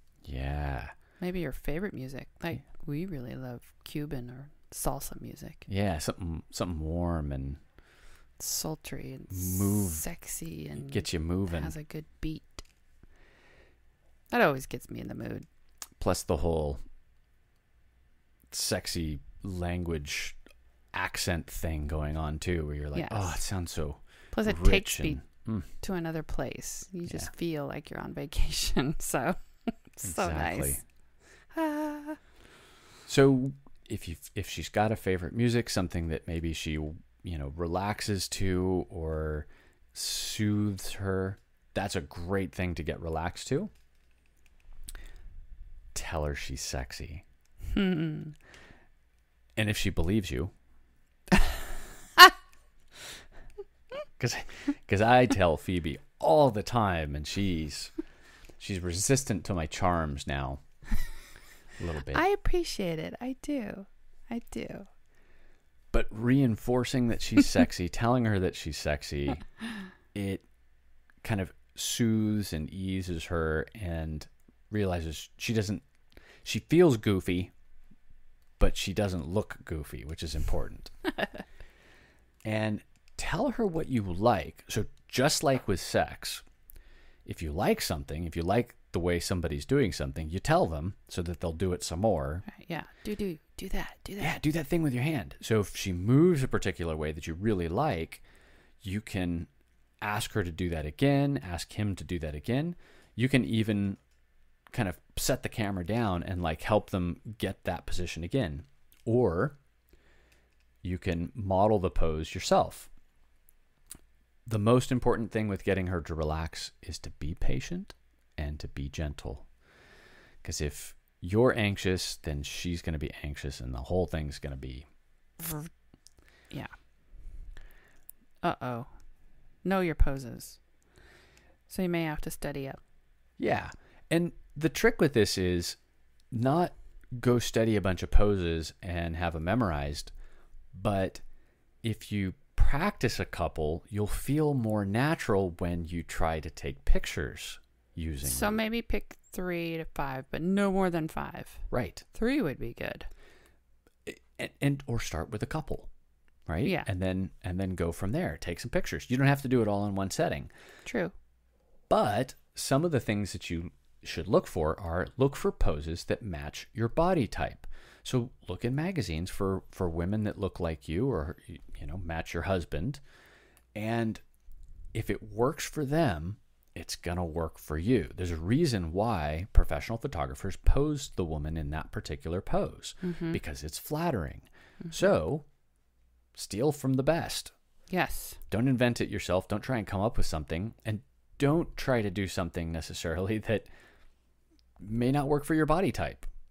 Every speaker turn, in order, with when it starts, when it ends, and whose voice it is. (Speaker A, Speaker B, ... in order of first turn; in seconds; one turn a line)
Speaker A: 0.2-0.9
Speaker B: 1.2-5.7
Speaker A: 5.7-7.6
Speaker B: 8.4-12.6
Speaker A: 9.3-10.1
Speaker A: 10.8-11.7
Speaker B: 14.3-15.4
Speaker A: 16.0-16.8
Speaker A: 18.5-20.4
Speaker A: 20.9-25.7
Speaker B: 22.9-23.4
Speaker B: 24.3-25.2
Speaker B: 25.8-29.4
Speaker B: 29.9-30.8
Speaker A: 30.0-30.8
Speaker B: 31.5-32.2
Speaker A: 33.0-43.7
Speaker A: 45.9-47.2
Speaker B: 47.7-48.3
Speaker A: 49.5-50.5
Speaker A: 54.2-57.9
Speaker A: 58.6-60.6
Speaker A: 61.8-62.2
Speaker B: 62.1-64.9
Speaker A: 65.9-69.4
Speaker A: 70.1-70.4
Speaker A: 71.2-75.8
Speaker A: 76.4-77.5
Speaker A: 78.6-80.9
Speaker A: 82.4-86.4
Speaker A: 87.2-92.4
Speaker B: 92.5-94.3
Speaker A: 94.2-98.2
Speaker A: 98.8-99.5
Speaker A: 100.0-104.0
Speaker A: 104.7-109.6
Speaker A: 110.8-112.9
Speaker A: 114.5-119.5
Speaker A: 120.4-124.9
Speaker B: 125.4-125.7
Speaker B: 128.4-128.9
Speaker B: 129.6-130.6
Speaker B: 131.7-132.8
Speaker A: 133.4-135.8
Speaker A: 136.3-140.1
Speaker A: 140.7-141.2
Speaker A: 141.8-148.6
Speaker B: 148.2-153.1
Speaker A: 151.7-152.0
Speaker A: 154.0-155.9
Speaker A: 156.5-160.5
Speaker B: 160.8-161.1
Speaker A: 161.9-173.0
Speaker A: 173.7-174.2
Speaker A: 174.9-185.4
Speaker B: 183.0-183.4
Speaker A: 186.3-187.5
Speaker B: 187.9-188.4
Speaker A: 188.5-193.7
Speaker A: 194.8-196.3